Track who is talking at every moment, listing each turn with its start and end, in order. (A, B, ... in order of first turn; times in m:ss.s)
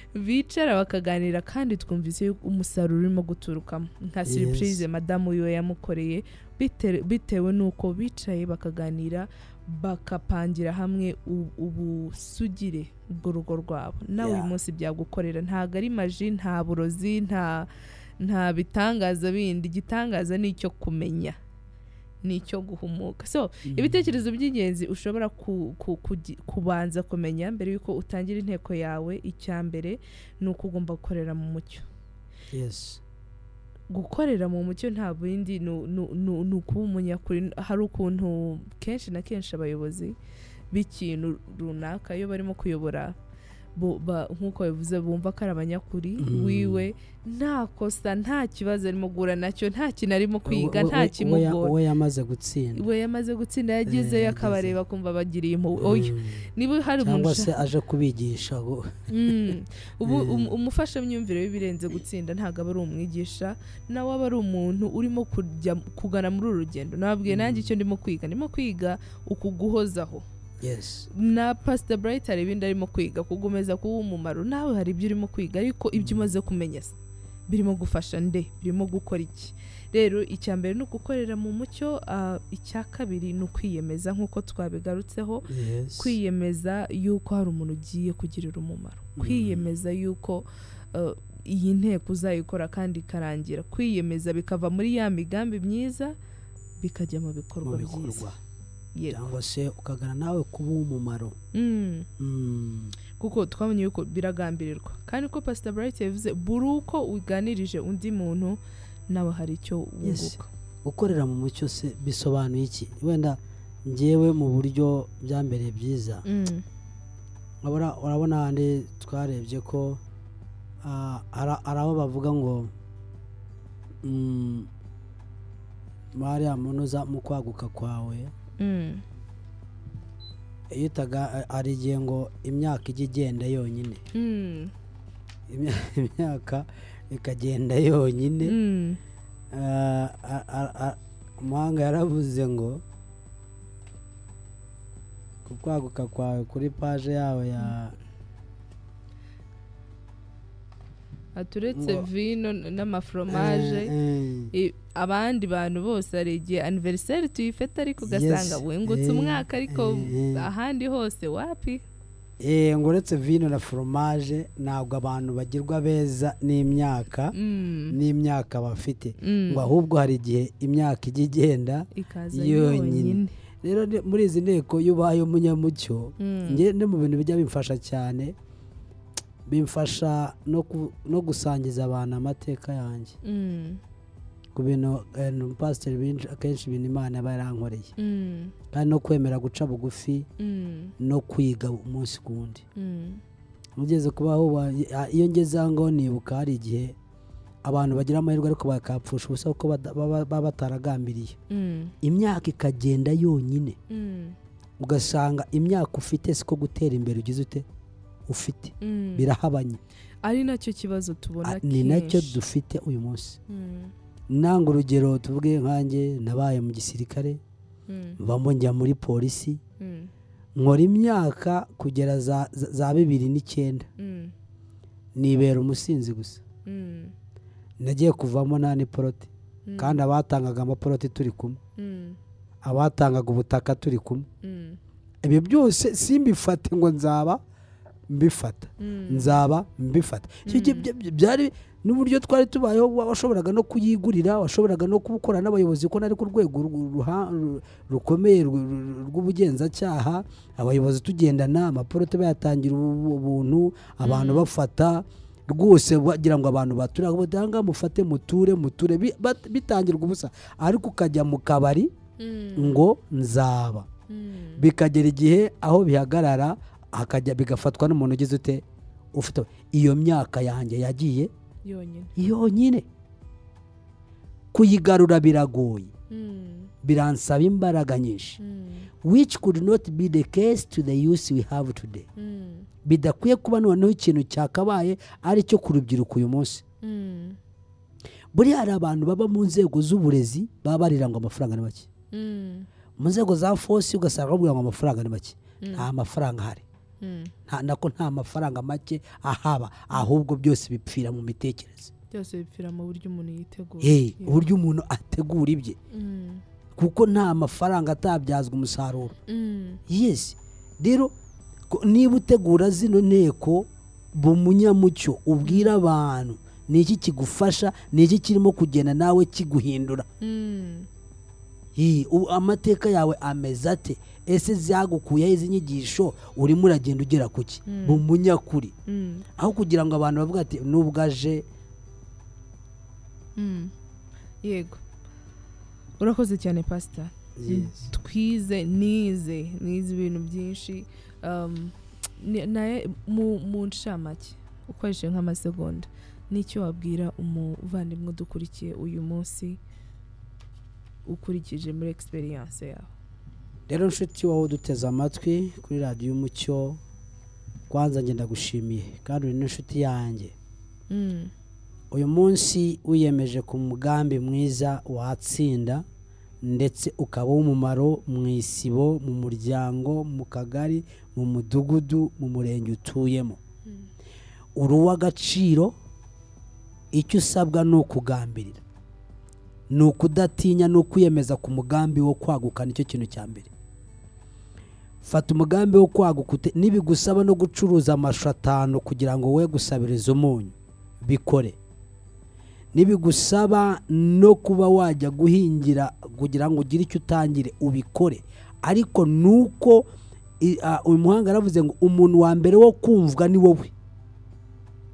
0:00.1-0:17.7 A
0:04.3-0:04.8 B
0:14.2-0:14.5 B
0:18.2-0:21.4 A
0:22.2-0:31.9 A
0:23.7-0:24.1 B
0:32.5-0:33.0 B
0:33.9-0:40.2 A
0:40.7-0:43.2 A
0:43.8-0:51.8 A
0:46.2-0:46.9 B
0:50.5-0:52.9 B
0:52.8-0:57.6 A
0:53.9-0:54.8 B
0:55.8-0:56.5 B
0:57.0-0:59.5 B
0:59.1-1:10.2 A
1:00.0-1:00.5 B
1:07.3-1:07.7 B
1:10.6-1:11.1 B
1:11.1-1:17.0 A
1:16.0-1:16.3 B
1:17.5-1:36.2 A
1:25.5-1:26.2 B
1:29.2-1:29.7 B
1:36.8-1:38.3 A
1:37.6-1:38.4 B
1:39.0-1:39.4 A
1:39.1-1:41.4 B
1:41.5-1:42.1 A
1:42.2-1:43.0 B
1:43.2-1:50.5 A
1:50.0-1:56.2 B
1:56.2-1:56.6 A
1:57.6-2:00.0 B
2:00.8-2:02.7 B
2:04.0-2:04.7 B
2:06.2-2:08.3 B
2:08.6-2:09.0 A
2:10.7-2:14.0 B
2:14.1-2:14.7 A
2:15.5-2:18.6 B
2:18.4-2:19.0 A
2:19.5-2:22.8 B
2:25.4-2:28.0 B
2:31.4-2:33.9 A
2:31.7-2:32.1 B
2:33.3-2:34.5 B
2:34.5-2:41.8 A
2:38.0-2:40.5 B
2:42.4-2:47.4 B
2:47.3-2:48.0 A
2:47.9-2:58.4 B
2:49.2-2:49.7 A
2:51.9-2:53.3 A
2:56.2-2:56.6 A
2:59.5-3:03.2 B
3:03.2-3:03.8 A
3:04.6-3:07.9 B
3:08.0-3:08.6 A
3:08.7-3:10.3 B
3:10.4-3:10.9 A
3:11.0-3:12.6 B
3:12.8-3:13.2 A
3:13.8-3:17.0 B
3:17.6-3:21.4 B
3:21.5-3:21.9 A
3:22.0-3:23.8 B
3:23.9-3:24.4 A
3:24.8-3:27.7 B
3:28.3-3:29.8 B
3:28.8-3:29.3 A
3:30.2-3:32.4 A
3:31.4-3:33.4 B
3:33.5-3:33.9 A
3:34.3-3:37.4 B
3:37.9-3:38.2 A
3:38.2-3:39.6 B
3:39.8-3:40.1 A
3:40.6-3:43.9 B
3:44.0-3:44.3 A
3:45.2-3:46.4 B
3:46.7-3:47.1 A
3:47.8-3:51.6 B
3:49.7-3:50.0 A
3:51.8-3:52.2 A
3:52.6-3:54.3 B
3:54.4-3:54.8 A
3:55.2-3:57.4 B
3:58.1-4:21.9 B
3:58.8-3:59.4 A
4:00.5-4:00.9 A
4:14.0-4:14.5 A
4:22.2-4:22.8 A
4:22.6-4:23.9 B
4:24.1-4:24.7 A
4:24.6-4:31.3 B
4:31.6-4:32.2 A
4:32.2-4:32.9 B
4:34.5-4:35.9 B
4:36.1-4:36.7 A
4:36.8-4:38.4 B
4:38.4-4:38.9 A
4:39.0-4:42.1 B
4:42.2-4:42.7 A
4:42.8-4:46.6 B
4:46.8-4:47.4 A
4:48.3-4:51.9 B
4:52.1-4:52.7 A
4:53.0-4:56.6 B
4:55.6-4:55.9 A
4:57.0-4:57.3 A
4:57.5-5:01.9 B
5:02.1-5:04.5 A
5:03.8-5:05.8 B
5:05.9-5:06.4 A
5:06.8-5:09.2 B
5:09.3-5:09.8 A
5:09.9-5:11.1 B
5:11.7-5:20.1 B
5:15.4-5:15.7 A
5:20.2-5:20.9 A
5:21.8-5:28.7 B
5:27.7-5:28.0 A
5:28.9-5:29.3 A
5:29.4-5:31.4 B
5:33.4-5:33.7 A
5:34.4-5:34.8 A
5:36.0-5:49.6 A
5:37.4-5:37.9 B
5:51.1-5:52.9 A
5:53.7-5:56.8 B
5:57.7-6:00.3 B
6:00.9-6:01.3 A
6:01.9-6:05.8 B
6:06.4-6:13.4 B
6:14.6-6:15.8 B
6:16.9-6:18.6 B
6:19.7-6:23.5 B
6:25.0-6:31.6 B
6:32.7-6:39.9 B
6:40.4-6:43.7 B